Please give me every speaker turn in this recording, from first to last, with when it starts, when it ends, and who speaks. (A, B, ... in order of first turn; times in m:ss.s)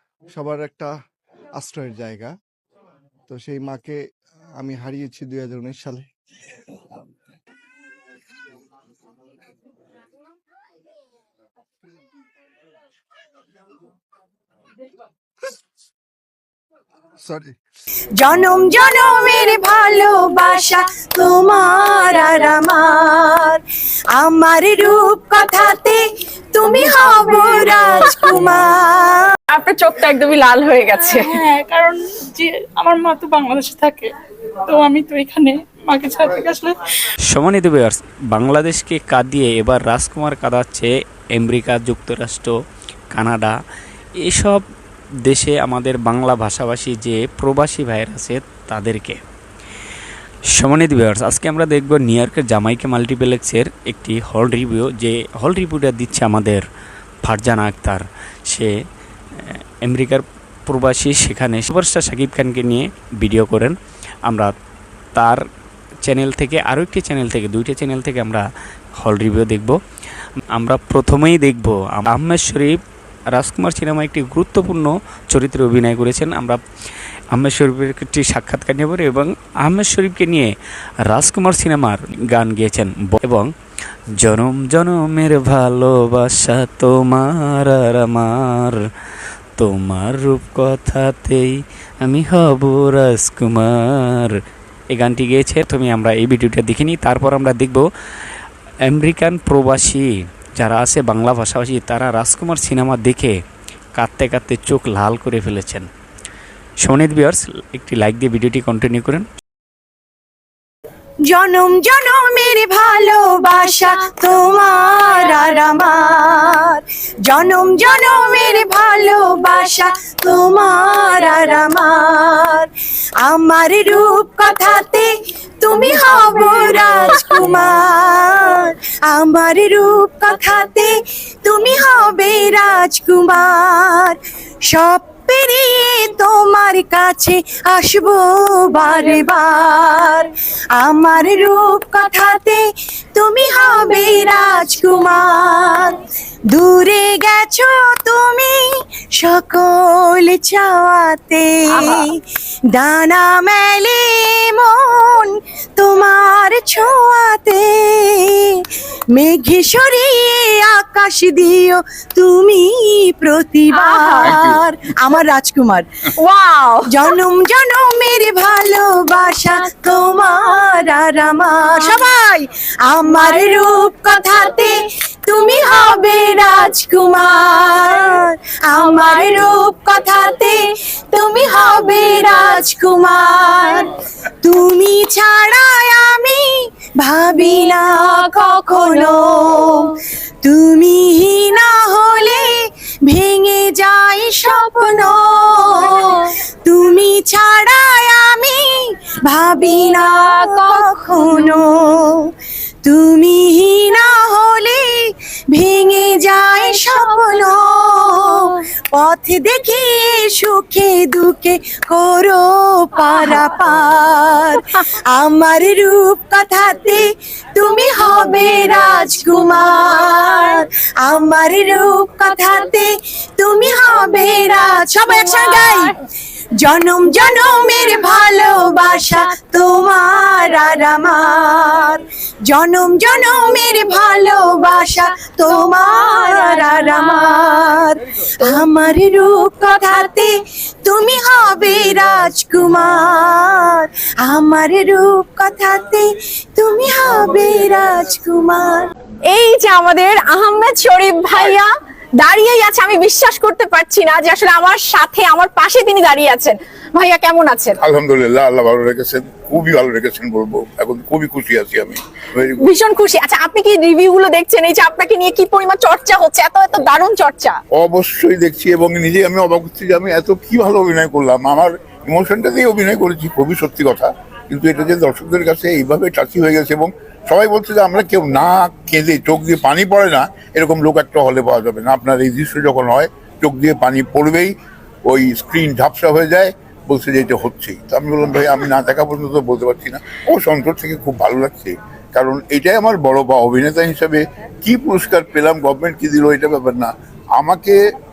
0:00.3-0:00.9 A
0:01.6-0:02.3 A
0:03.3-0:04.0 A
0:04.6-0:06.1 A
0:17.3-0:17.5 A
0:18.2-0:23.6 B
0:24.1-0:26.0 B
0:26.5-0:29.3 B
0:27.6-0:28.3 C
0:29.5-0:31.3 C
0:31.3-0:34.1 D
0:34.7-0:36.7 D
0:37.3-0:42.5 E
0:43.2-0:43.5 E
0:44.2-0:44.6 E
0:45.2-0:49.2 E
0:50.6-0:56.6 E
0:57.2-0:58.7 E
0:59.4-1:03.8 E
1:05.2-1:05.4 E
1:06.0-1:08.4 E
1:09.0-1:09.8 E
1:10.6-1:12.8 E
1:13.4-1:16.6 E
1:17.4-1:20.5 E
1:21.1-1:23.5 E
1:24.2-1:27.7 E
1:29.6-1:31.5 E
1:32.1-1:33.7 E
1:35.0-1:37.8 E
1:38.9-1:40.0 E
1:40.6-1:43.3 E
1:44.0-1:45.9 E
1:46.9-1:49.2 E
1:51.3-2:02.7 B
2:03.2-2:05.1 B
2:05.6-2:10.9 B
2:11.4-2:14.2 B
2:14.7-2:22.6 B
2:23.1-2:26.0 B
2:26.5-2:28.6 B
2:29.2-2:32.1 B
2:31.7-2:32.1 C
2:32.7-2:38.5 B
2:39.1-2:45.9 B
2:43.7-2:44.4 C
2:44.2-2:44.6 F
2:46.2-2:47.1 C
2:46.9-3:03.9 B
3:04.4-3:06.4 B
3:07.0-3:12.5 B
3:13.1-3:22.2 B
3:22.8-3:34.6 B
3:35.1-3:37.0 B
3:37.6-3:45.9 B
3:45.1-3:45.9 C
3:46.6-4:00.3 B
4:00.8-4:08.9 B
4:09.3-4:11.7 C
4:12.2-4:17.8 C
4:17.8-4:22.7 F
4:22.6-4:27.6 C
4:27.8-4:57.8 F